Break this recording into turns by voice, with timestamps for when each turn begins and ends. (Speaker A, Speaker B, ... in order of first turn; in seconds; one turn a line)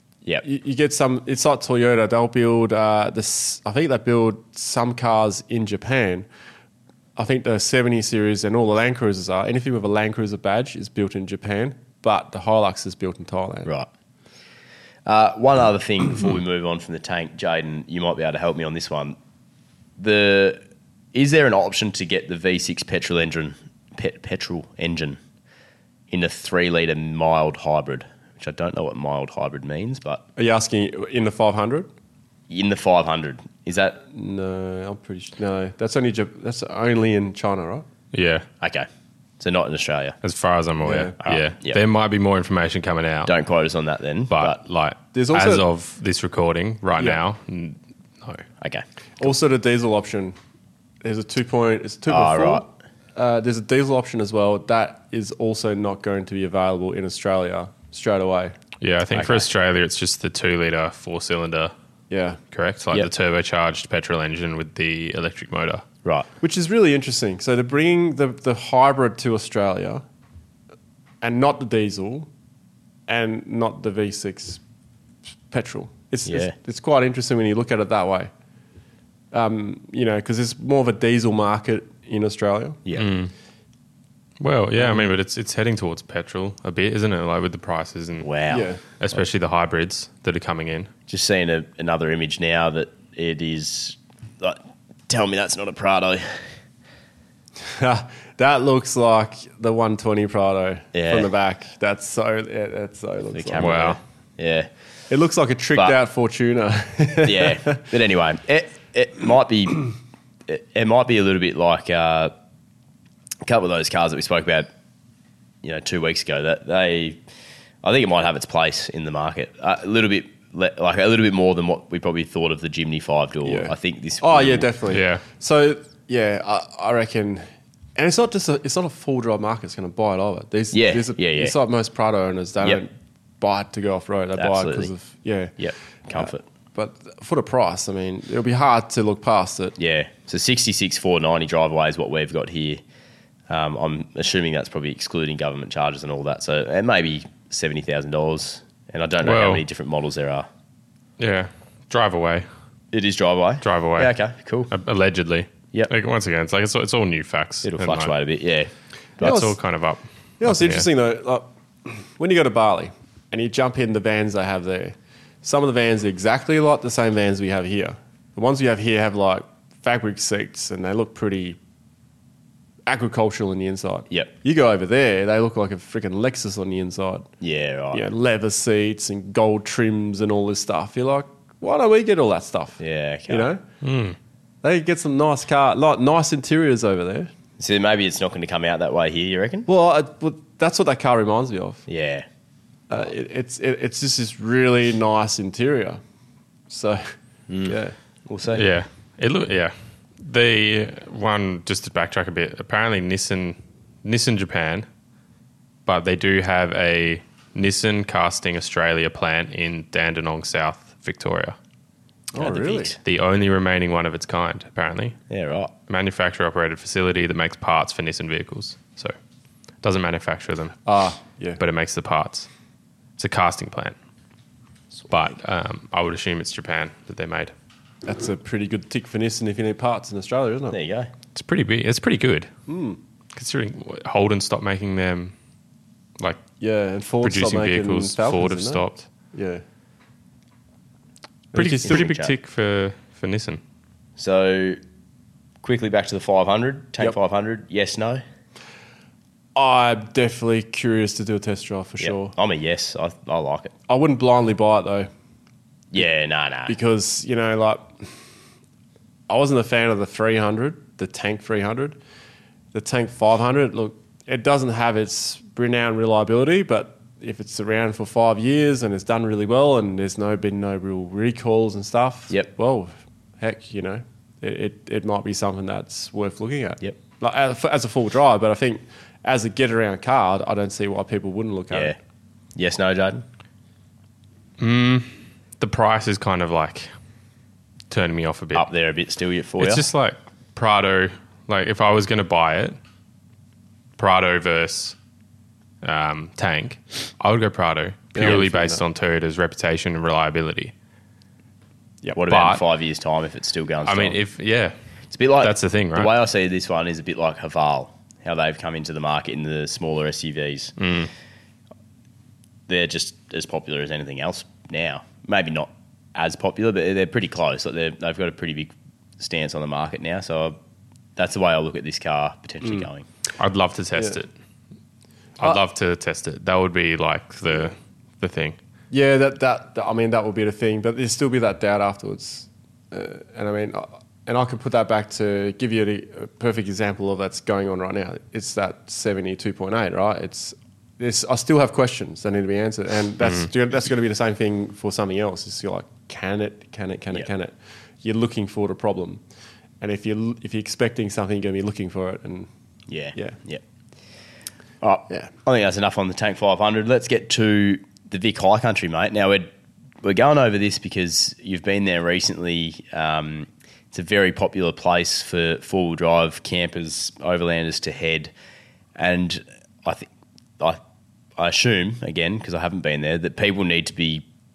Speaker A: 0.4-6.3
Speaker A: 7.2-13.7
Speaker B: 15.1-19.2
Speaker B: 20.0-20.6
Speaker B: 21.1-25.2
Speaker B: 26.1-30.2
Speaker A: 30.4-31.9
Speaker B: 32.5-34.0
Speaker A: 34.1-37.9
Speaker C: 38.1-38.5
Speaker B: 38.6-38.9
Speaker B: 39.4-40.2
Speaker C: 40.2-43.3
Speaker A: 40.8-41.1
Speaker B: 41.2-41.8
Speaker B: 43.3-44.6
Speaker C: 44.3-48.4
Speaker A: 45.1-45.6
Speaker A: 49.2-50.4
Speaker A: 51.0-58.5
Speaker B: 52.1-52.6
Speaker C: 58.8-61.7
Speaker B: 59.1-59.5
Speaker A: 62.1-62.4
Speaker C: 62.5-65.8
Speaker A: 66.4-70.0
Speaker A: 71.2-72.3
Speaker A: 73.1-74.6
Speaker A: 75.5-78.3
Speaker B: 76.3-76.6
Speaker A: 79.3-82.8
Speaker C: 83.0-83.3
Speaker C: 84.4-88.3
Speaker A: 84.8-85.1
Speaker B: 88.2-88.7
Speaker A: 88.5-88.8
Speaker C: 89.0-90.9
Speaker B: 91.1-96.4
Speaker A: 97.7-103.8
Speaker B: 100.9-101.3
Speaker B: 103.3-104.7
Speaker C: 103.6-104.0
Speaker A: 105.1-107.8
Speaker B: 107.2-109.9
Speaker B: 110.5-112.3
Speaker B: 113.5-114.7
Speaker B: 115.6-117.2
Speaker B: 117.8-124.7
Speaker A: 123.5-135.5
Speaker C: 124.9-125.2
Speaker B: 130.7-131.6
Speaker B: 134.4-134.9
Speaker B: 135.6-136.4
Speaker A: 136.1-139.8
Speaker B: 139.8-142.8
Speaker B: 143.5-150.5
Speaker C: 149.2-149.6
Speaker C: 151.2-152.5
Speaker B: 152.9-154.7
Speaker C: 153.6-154.2
Speaker C: 154.7-158.1
Speaker B: 157.6-159.4
Speaker A: 159.2-159.6
Speaker C: 159.2-160.9
Speaker A: 160.4-171.6
Speaker A: 172.9-177.3
Speaker B: 177.4-178.1
Speaker A: 177.9-183.6
Speaker B: 182.8-183.5
Speaker C: 183.8-184.2
Speaker A: 184.6-187.3
Speaker B: 187.6-189.7
Speaker A: 189.7-191.8
Speaker B: 191.9-192.3
Speaker A: 192.9-196.0
Speaker A: 196.7-197.1
Speaker B: 197.5-198.7
Speaker A: 197.7-197.9
Speaker C: 198.5-204.9
Speaker C: 205.9-211.6
Speaker A: 212.3-212.9
Speaker B: 212.4-213.0
Speaker C: 213.0-215.2
Speaker B: 215.3-215.7
Speaker C: 215.9-219.1
Speaker C: 219.8-220.8
Speaker A: 220.9-221.6
Speaker C: 221.6-222.5
Speaker C: 223.2-223.9
Speaker C: 225.1-227.5
Speaker A: 228.1-230.8
Speaker B: 230.7-231.1
Speaker C: 231.3-232.5
Speaker A: 232.7-233.0
Speaker C: 233.3-235.3
Speaker A: 236.6-239.6
Speaker C: 237.2-239.1
Speaker A: 241.5-242.1
Speaker C: 241.5-243.6
Speaker B: 241.8-242.3
Speaker B: 244.2-244.8
Speaker B: 245.6-248.2
Speaker A: 249.6-252.3
Speaker B: 252.0-253.7
Speaker A: 253.9-255.1
Speaker B: 255.9-256.8
Speaker A: 256.7-258.1
Speaker A: 259.3-262.0
Speaker A: 262.7-282.0
Speaker B: 281.7-282.0
Speaker B: 282.6-283.2
Speaker C: 284.6-286.9
Speaker C: 287.9-288.7
Speaker B: 288.6-289.9
Speaker C: 289.6-292.8
Speaker C: 294.0-295.0
Speaker C: 295.8-300.7
Speaker A: 298.1-298.8
Speaker B: 302.1-304.2
Speaker C: 302.3-302.6
Speaker C: 303.9-304.7
Speaker B: 305.1-310.7
Speaker C: 305.4-306.1
Speaker C: 310.8-311.1
Speaker B: 312.7-320.6
Speaker B: 321.2-323.1
Speaker C: 323.4-324.3
Speaker C: 325.4-328.6
Speaker A: 328.9-349.2
Speaker C: 343.2-343.5
Speaker A: 349.8-352.5
Speaker B: 352.9-353.6
Speaker B: 354.8-359.5
Speaker B: 360.0-368.3
Speaker B: 369.0-370.1
Speaker B: 371.4-374.2